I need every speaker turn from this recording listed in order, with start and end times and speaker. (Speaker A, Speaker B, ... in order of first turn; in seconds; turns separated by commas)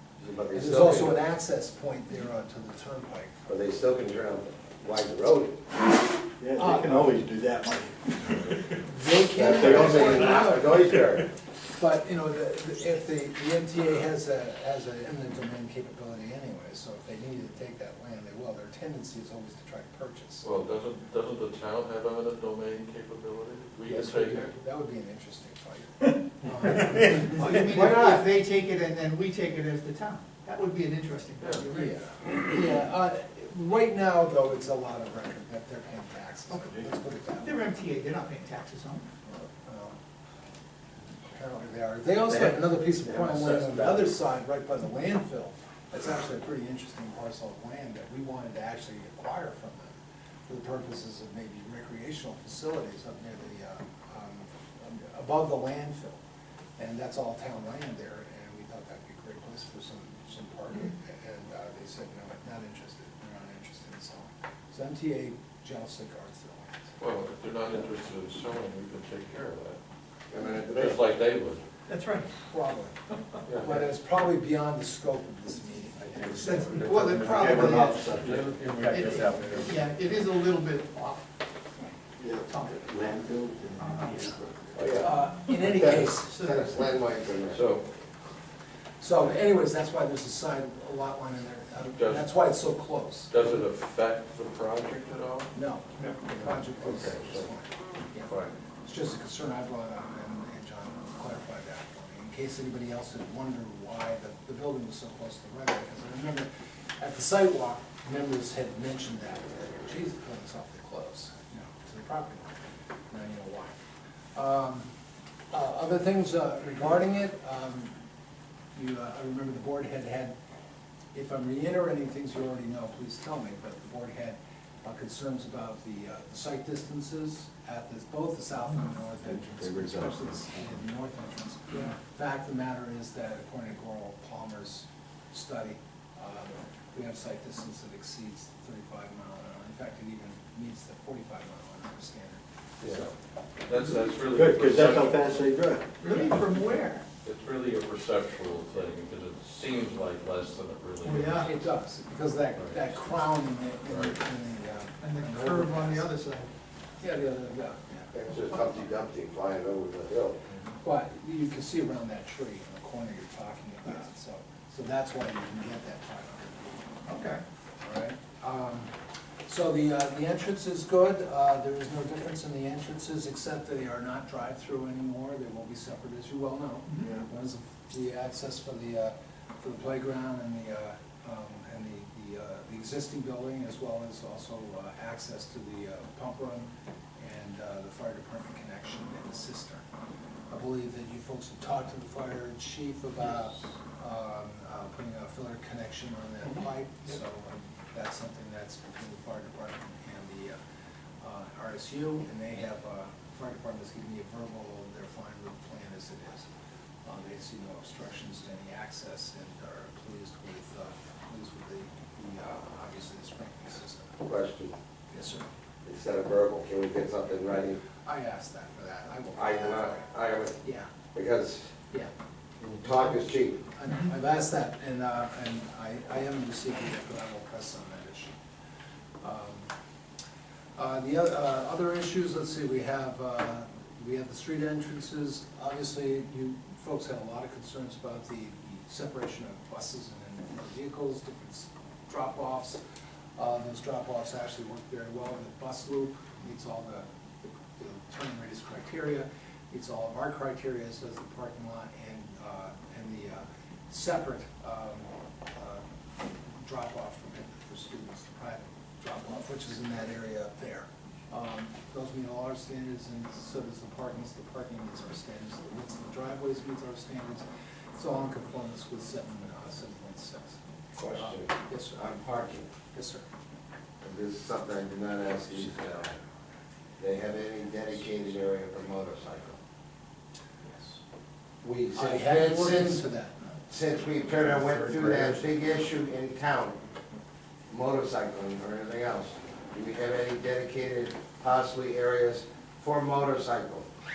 Speaker A: 0.2-1.2, Speaker B: 0.5-3.4, Speaker A: 3.5-5.7, Speaker C: 6.4-8.7, Speaker B: 6.6-7.1, Speaker B: 8.7-11.0, Speaker A: 9.4-11.3, Speaker C: 9.4-10.7, Speaker B: 11.8-20.4, Speaker D: 20.4-24.5, Speaker B: 23.9-28.2, Speaker E: 27.2-31.9, Speaker D: 31.4-31.7, Speaker B: 31.7-37.6, Speaker E: 37.4-39.1, Speaker B: 39.3-40.0, Speaker B: 41.2-50.0, Speaker C: 42.3-44.1, Speaker B: 50.5-56.2, Speaker B: 56.8-66.8, Speaker D: 67.0-69.8, Speaker A: 70.3-71.1, Speaker D: 70.7-71.6, Speaker E: 71.9-72.3, Speaker B: 72.5-72.9, Speaker D: 73.5-73.9, Speaker B: 73.6-77.6, Speaker E: 76.3-78.2, Speaker C: 76.8-79.8, Speaker D: 78.2-79.6, Speaker E: 78.8-81.2, Speaker C: 82.2-84.9, Speaker E: 82.5-82.8, Speaker E: 83.8-84.3, Speaker A: 84.8-85.1, Speaker B: 85.0-86.5, Speaker A: 86.3-87.7, Speaker E: 86.3-86.6, Speaker D: 87.5-87.8, Speaker B: 89.0-93.3, Speaker D: 92.0-92.3, Speaker D: 93.3-95.5, Speaker B: 95.5-98.3, Speaker D: 96.8-97.5, Speaker D: 98.2-98.5, Speaker B: 98.8-106.5, Speaker B: 107.0-112.6, Speaker B: 113.1-113.8, Speaker B: 114.3-114.9, Speaker B: 115.5-118.0, Speaker B: 118.8-120.3, Speaker B: 121.1-142.4, Speaker C: 129.5-130.1, Speaker D: 142.8-145.3, Speaker C: 144.2-145.9, Speaker E: 146.0-147.1, Speaker D: 147.2-151.6, Speaker E: 151.0-151.5, Speaker B: 151.4-156.1, Speaker D: 153.9-154.2, Speaker E: 155.0-156.5, Speaker B: 157.0-158.1, Speaker A: 158.1-160.4, Speaker B: 160.8-166.8, Speaker E: 167.1-167.4, Speaker B: 167.8-168.9, Speaker B: 169.5-189.8, Speaker B: 190.5-200.6, Speaker B: 201.2-206.5, Speaker B: 207.1-214.2, Speaker A: 214.2-214.8, Speaker B: 215.1-215.5, Speaker A: 215.8-217.8, Speaker B: 218.1-220.1, Speaker A: 219.3-220.6, Speaker B: 220.6-220.9, Speaker A: 221.1-221.7, Speaker A: 222.6-223.6, Speaker B: 223.8-228.3, Speaker B: 229.2-229.7, Speaker B: 230.8-242.8, Speaker B: 243.4-255.8, Speaker B: 256.5-267.4, Speaker B: 268.0-272.2, Speaker A: 270.9-272.7, Speaker B: 272.9-273.2, Speaker A: 274.0-276.2, Speaker A: 277.0-279.6, Speaker A: 281.6-283.1, Speaker B: 281.9-283.4, Speaker A: 283.7-286.8, Speaker C: 284.7-285.0, Speaker A: 287.7-293.9